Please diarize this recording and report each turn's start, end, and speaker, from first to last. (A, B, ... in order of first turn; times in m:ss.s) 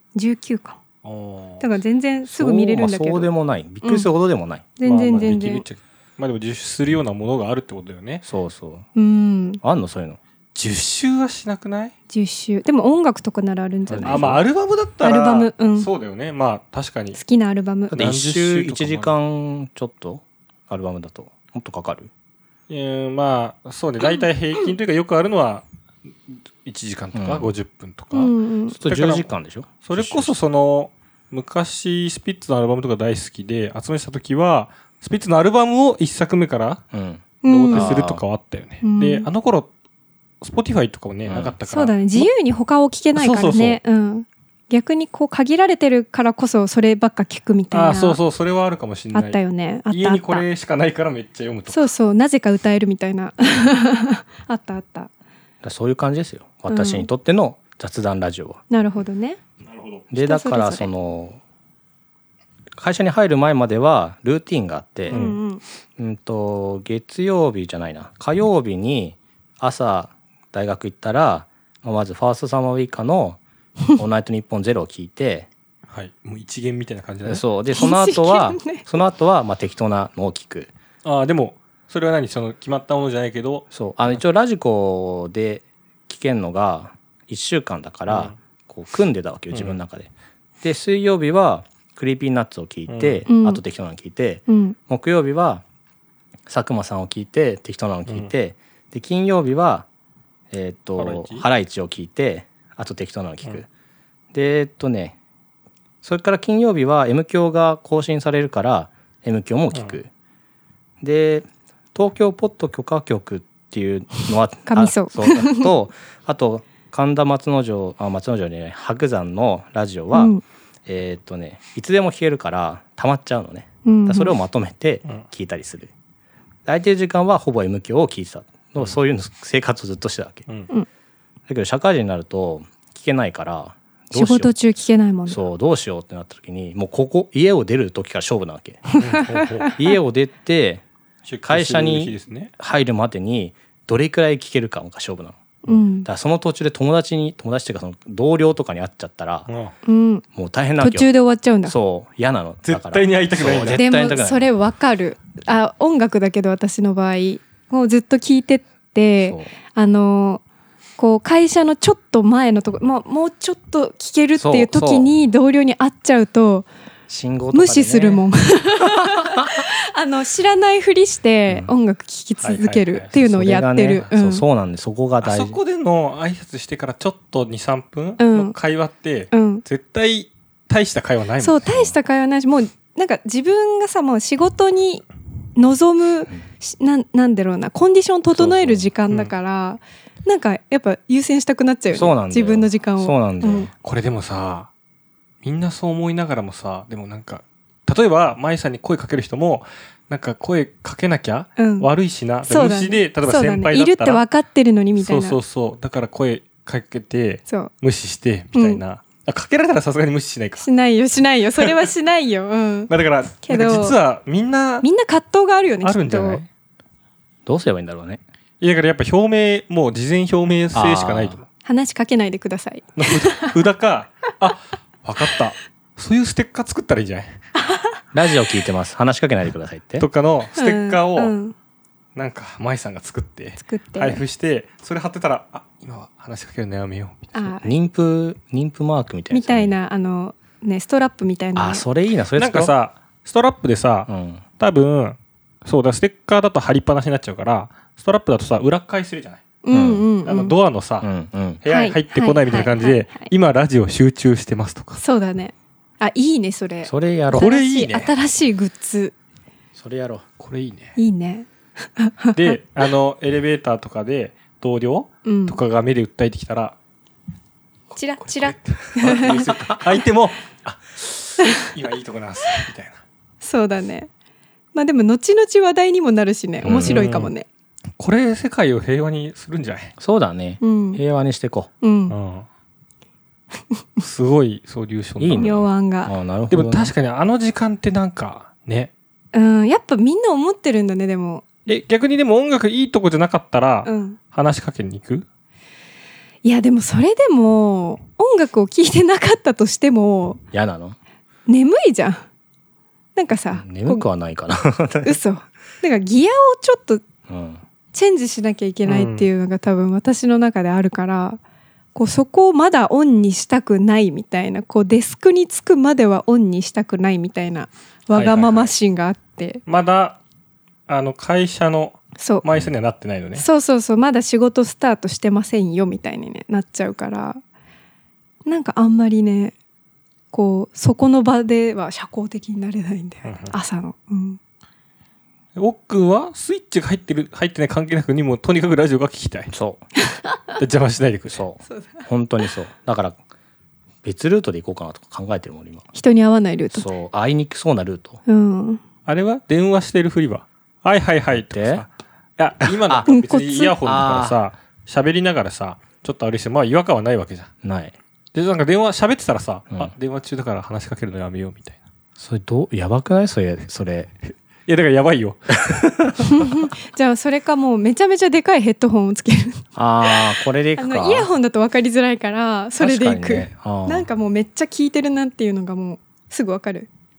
0:00.2-0:00.8 A
0:01.0-0:01.6 B
0:01.6-0:03.3 A
0:02.3-0:04.7 C
0:03.8-0:04.1 A
0:04.8-0:05.6 A
0:04.8-0:08.2 B
0:08.2-0:08.9 C
0:09.0-0:09.6 A
0:09.6-0:10.2 C
0:10.6-0:11.9 B
0:12.1-0:14.4 A
0:13.9-0:14.4 C
0:14.0-0:17.2 B
0:15.0-0:15.9 A
0:17.1-0:18.0 A
0:17.9-0:22.1 C
0:17.9-0:19.1 B
0:22.7-0:25.6 B
0:26.3-0:28.4 B
0:27.1-0:27.5 C
0:28.1-0:28.8 A
0:28.7-0:30.3 C
0:28.9-0:29.3 B
0:29.8-0:36.8 B
0:36.9-0:38.2 C
0:37.4-0:37.9 A
0:37.5-0:39.7 B
0:38.8-0:39.3 A
0:40.4-0:42.3 B
0:41.3-0:41.6 C
0:41.7-0:48.2 A
0:43.2-0:43.8 B
0:47.7-0:49.4 B
0:49.1-0:50.5 A
0:49.9-0:51.9 B
0:51.7-0:55.1 A
0:55.6-0:58.6 C
0:56.7-0:57.1 A
0:58.7-0:59.4 A
0:59.6-1:00.1 B
1:00.1-1:01.4 C
1:00.2-1:00.9 A
1:02.8-1:05.2 C
1:05.1-1:05.6 A
1:05.1-1:05.4 B
1:06.0-1:13.4 C
1:14.0-1:15.5 C
1:15.9-1:17.4 B
1:17.2-1:20.7 C
1:17.7-1:18.9 A
1:21.0-1:23.7 B
1:23.7-1:30.1 C
1:28.1-1:28.4 B
1:29.5-1:29.8 B
1:30.6-1:35.6 C
1:32.9-1:33.2 B
1:33.3-1:33.6 A
1:34.5-1:34.8 A
1:36.5-1:39.9 C
1:40.5-1:43.7 C
1:41.0-1:41.5 B
1:44.3-1:45.2 C
1:46.0-1:50.1 C
1:51.0-2:00.4 C
1:54.7-1:55.7 A
2:00.1-2:00.4 A
2:00.9-2:05.9 C
2:03.8-2:04.4 A
2:06.7-2:10.5 C
2:11.5-2:14.5 C
2:14.1-2:15.4 A
2:15.3-2:18.9 C
2:18.9-2:19.7 A
2:19.0-2:19.8 B
2:19.8-2:20.8 C
2:21.3-2:22.5 B
2:21.5-2:25.4 C
2:25.6-2:26.1 A
2:26.0-2:29.5 C
2:29.5-2:29.8 B
2:29.8-2:30.2 A
2:30.3-2:31.1 C
2:30.8-2:31.8 A
2:31.6-2:34.5 C
2:32.6-2:33.9 B
2:33.7-2:40.4 A
2:39.2-2:39.5 C
2:41.0-2:46.7 A
2:44.4-2:45.1 C
2:47.1-2:48.2 C
2:47.5-2:54.4 A
2:48.8-2:49.6 C
2:52.4-2:53.1 B
2:53.1-2:55.6 C
2:55.2-3:01.9 B
2:58.2-2:58.6 A
2:59.3-2:59.6 A
3:01.4-3:05.0 A
3:05.6-3:13.7 A
3:08.4-3:08.9 C
3:11.9-3:13.7 C
3:13.8-3:14.7 B
3:15.4-3:24.2 B
3:21.6-3:21.9 A
3:22.5-3:25.4 A
3:25.0-3:30.7 B
3:28.5-3:28.8 A
3:30.6-3:32.9 A
3:31.6-3:31.8 B
3:32.9-3:34.9 B
3:33.4-3:34.0 A
3:34.8-3:36.4 A
3:35.8-3:36.5 B
3:37.5-3:38.2 C
3:38.6-3:41.4 B
3:40.7-3:41.4 C
3:41.6-3:43.6 A
3:43.0-3:47.4 B
3:47.6-3:48.0 A
3:48.1-3:50.1 C
3:50.0-3:51.4 B
3:50.6-3:51.6 A
3:52.2-3:57.5 B
3:53.6-3:54.2 A
3:57.3-3:57.7 A
3:57.6-3:59.7 C
3:59.3-4:01.8 A
4:01.6-4:02.7 C
4:02.4-4:09.4 B
4:04.1-4:04.4 C
4:09.6-4:10.6 A
4:09.7-4:10.0 C
4:10.2-4:11.1 B
4:11.0-4:11.6 C
4:11.6-4:15.0 B
4:11.7-4:13.3 A
4:15.0-4:19.2 A
4:16.8-4:17.5 C
4:17.3-4:18.1 B
4:19.8-4:20.2 C
4:20.4-4:21.0 B
4:21.0-4:22.6 A
4:22.4-4:26.8 B
4:25.2-4:25.6 A
4:27.9-4:29.5 A
4:28.2-4:33.0 B
4:31.4-4:31.7 A
4:33.4-4:34.1 A
4:34.7-4:37.5 A
4:36.6-4:37.1 C
4:36.7-4:37.3 B
4:38.0-4:39.9 B
4:40.0-4:41.7 C
4:40.6-4:41.0 A
4:41.8-4:42.2 A
4:42.1-4:42.5 B
4:44.0-4:45.6 B
4:45.2-4:46.9 C
4:45.4-4:46.1 A
4:46.5-4:48.9 B
4:49.3-4:51.4 A
4:51.7-4:55.2 B
4:53.8-4:54.2 A
4:56.4-5:00.4 A
5:00.5-5:01.0 C
5:01.5-5:02.2 A
5:03.2-5:04.0 A
5:03.6-5:05.2 C
5:05.0-5:07.0 A
5:07.3-5:07.6 C
5:07.9-5:11.4 A
5:08.9-5:09.3 B
5:12.0-5:19.6 A
5:18.1-5:18.7 B
5:19.7-5:20.2 B
5:20.9-5:23.4 B
5:22.2-5:22.4 A
5:23.4-5:27.4 A
5:28.5-5:29.6 A
5:30.3-5:34.4 A
5:33.2-5:33.6 B
5:35.6-5:39.5 B
5:39.5-5:39.8 C
5:40.0-5:40.6 A
5:40.6-5:41.4 B
5:41.3-5:43.2 C
5:41.6-5:42.1 A
5:44.0-5:45.8 C
5:45.9-5:46.9 A
5:46.7-5:48.2 C
5:48.3-5:48.8 A
5:49.1-5:57.5 B
5:51.5-5:51.8 C
5:52.6-5:53.1 C
5:53.1-5:53.8 A
5:53.8-5:54.4 C
5:57.6-5:58.0 C
5:58.3-6:01.8 B
6:02.2-6:04.1 C
6:04.7-6:05.6 B
6:05.6-6:06.3 C
6:06.2-6:16.9 A
6:09.8-6:11.3 C
6:12.8-6:14.1 C